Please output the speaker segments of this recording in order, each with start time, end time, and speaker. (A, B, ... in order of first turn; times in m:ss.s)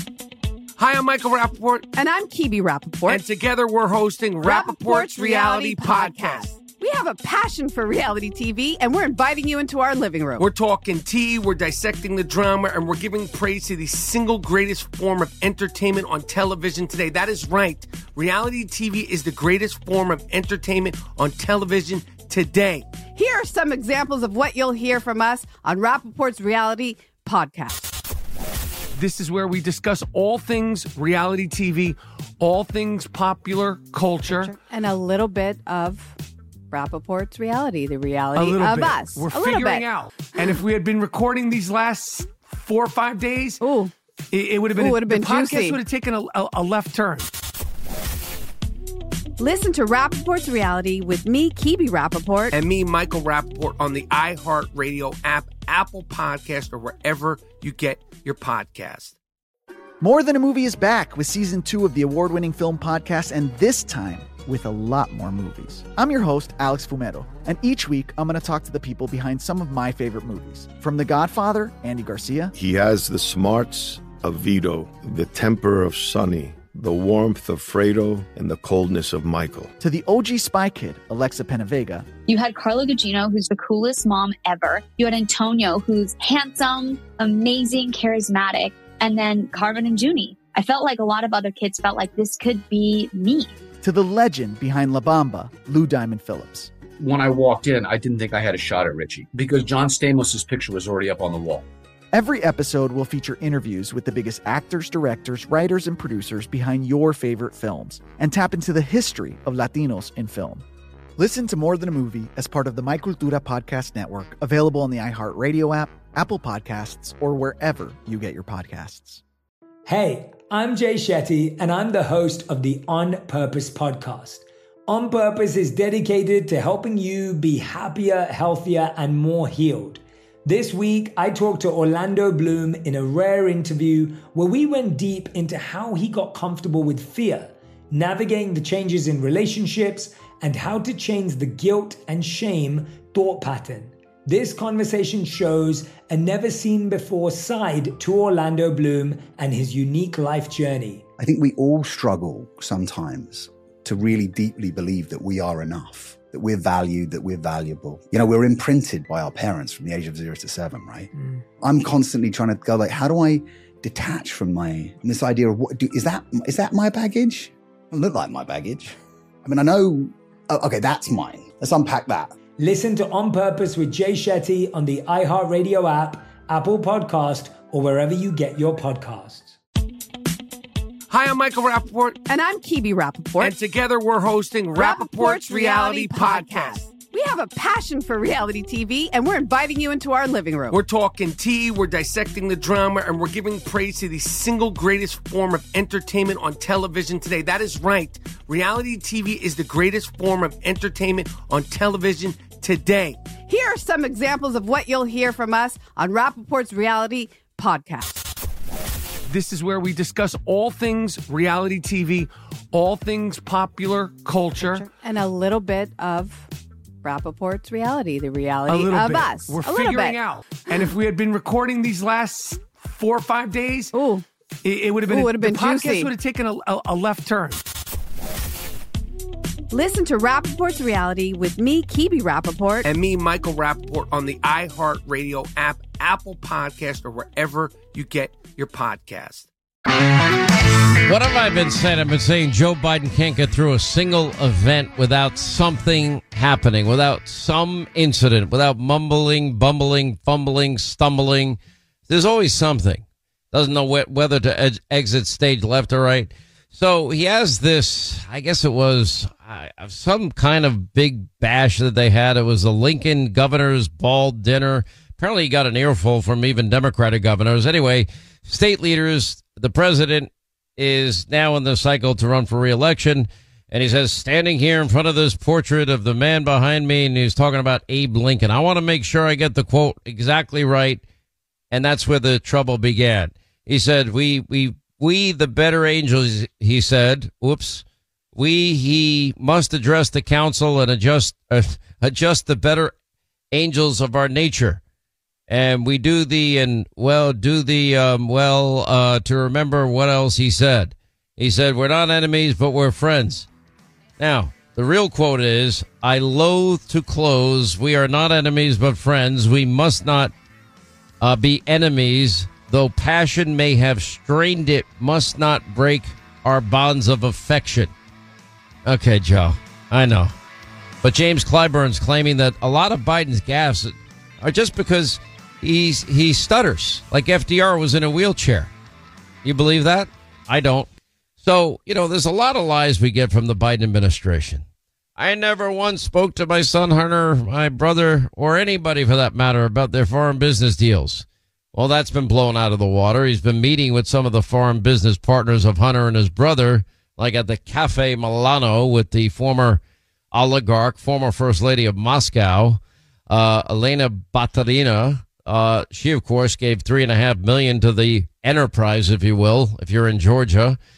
0:00.8-0:01.9 A
0:02.0-0:03.2 B
0:03.1-0:06.5 A
0:04.4-0:10.5 B
0:10.4-0:22.9 A
0:23.1-0:27.9 B
0:29.0-0:34.5 A
0:34.2-0:36.2 B
0:36.7-0:39.9 B
0:38.4-0:43.6 A
0:43.6-0:43.9 B
0:44.3-0:47.3 A
0:44.8-0:45.8 B
0:49.4-0:52.6 B
0:52.5-0:59.2 A
1:00.0-1:12.5 C
1:12.6-1:19.7 D
1:19.8-1:22.1 C
1:22.3-1:33.6 E
1:33.8-1:36.7 C
1:37.0-1:41.7 F
1:42.1-1:50.6 C
1:51.2-1:59.2 C
1:59.9-2:31.0 G
2:31.2-2:41.1 H
2:41.6-2:48.9 H
2:49.4-2:52.4 H
2:52.6-2:59.6 G
3:01.1-3:02.2 A
3:02.3-3:03.6 B
3:03.4-3:06.8 A
3:04.8-3:10.8 B
3:10.7-3:23.2 A
3:23.5-3:28.2 B
3:29.3-3:34.9 A
3:34.6-3:36.5 B
3:37.0-3:40.2 B
3:38.7-3:43.9 A
3:43.9-3:44.2 B
3:44.6-3:47.6 A
3:45.0-3:46.1 B
3:49.7-3:52.9 B
3:52.8-3:59.5 A
4:01.0-4:41.0 I
4:41.7-4:47.8 I
4:48.4-4:52.9 I
4:53.5-4:54.8 I
4:55.5-5:03.5 I
5:04.2-5:10.3 I
5:11.2-5:17.9 I
5:18.8-5:20.3 I
5:21.0-5:28.7 I
5:29.4-5:30.9 I
5:31.4-5:34.6 I
5:35.2-5:49.8 I
5:50.3-6:00.8 I